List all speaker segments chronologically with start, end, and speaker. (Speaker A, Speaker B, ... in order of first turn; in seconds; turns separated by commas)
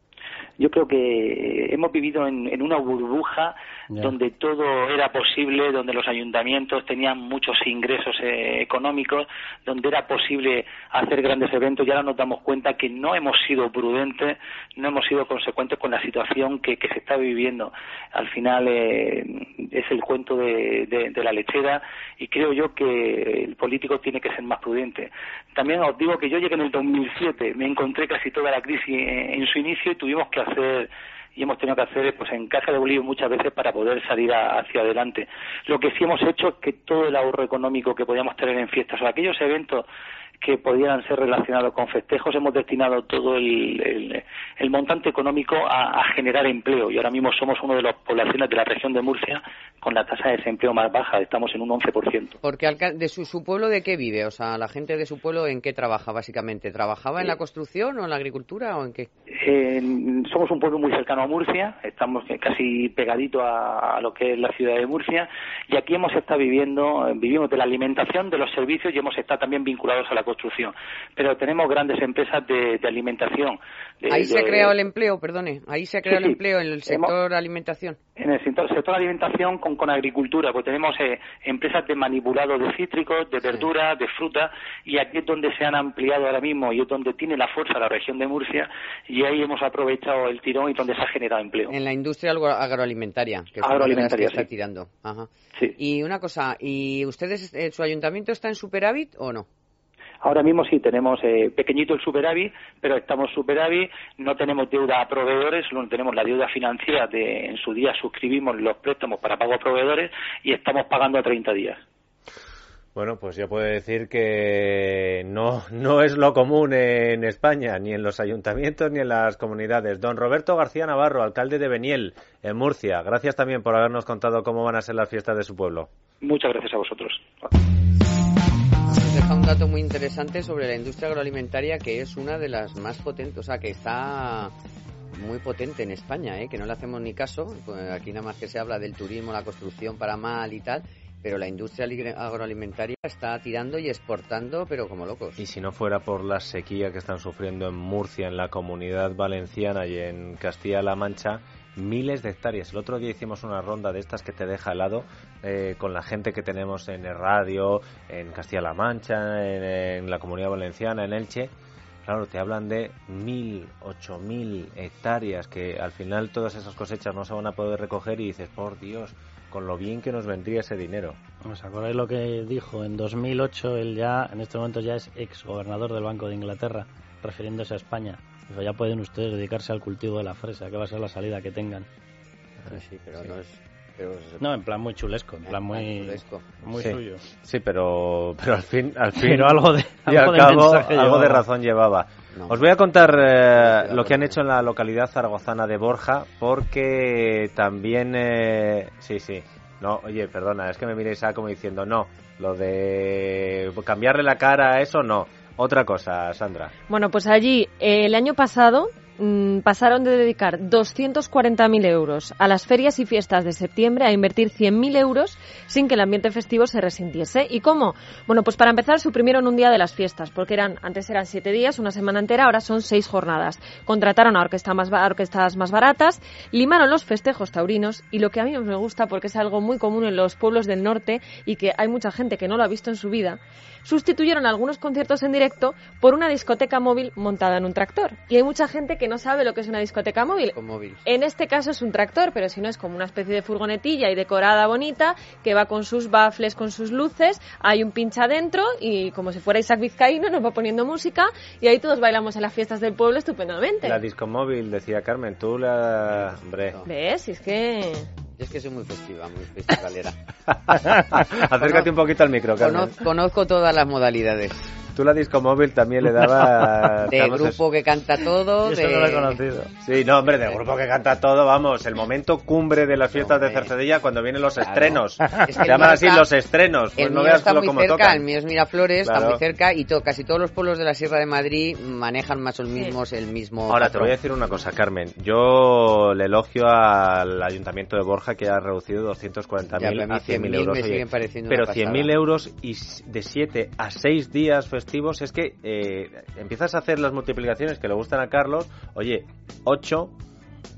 Speaker A: 0.6-39.9, Speaker A: 40.4-52.4, Speaker B: 52.4-59.1, Speaker A: 59.4-74.7, Speaker B: 74.1-78.0, Speaker A: 76.1-77.1, Speaker A: 78.2-91.7, Speaker B: 91.7-99.5, Speaker A: 93.6-94.5, Speaker A: 100.2-111.8, Speaker C: 112.9-125.9, Speaker A: 126.2-127.5, Speaker B: 128.9-134.5, Speaker B: 135.1-145.4, Speaker C: 145.4-161.5, Speaker C: 162.0-171.2, Speaker D: 171.4-181.8, Speaker B: 182.7-184.4, Speaker D: 184.4-187.2, Speaker B: 185.4-186.6, Speaker C: 186.7-206.7, Speaker D: 189.2-191.4, Speaker B: 192.3-192.7, Speaker B: 193.3-194.4, Speaker E: 206.9-254.0, Speaker B: 240.5-241.0, Speaker C: 253.8-256.7, Speaker B: 256.2-256.9, Speaker E: 256.8-258.1, Speaker B: 258.4-260.2, Speaker C: 260.7-263.0, Speaker B: 261.6-261.9, Speaker B: 262.6-264.7, Speaker C: 264.9-267.6, Speaker B: 267.1-269.4, Speaker D: 268.6-269.7, Speaker C: 269.8-278.2, Speaker B: 273.1-273.7, Speaker B: 274.6-276.2, Speaker B: 277.0-284.2, Speaker C: 279.0-279.4, Speaker C: 283.7-300.1, Speaker B: 289.7-292.1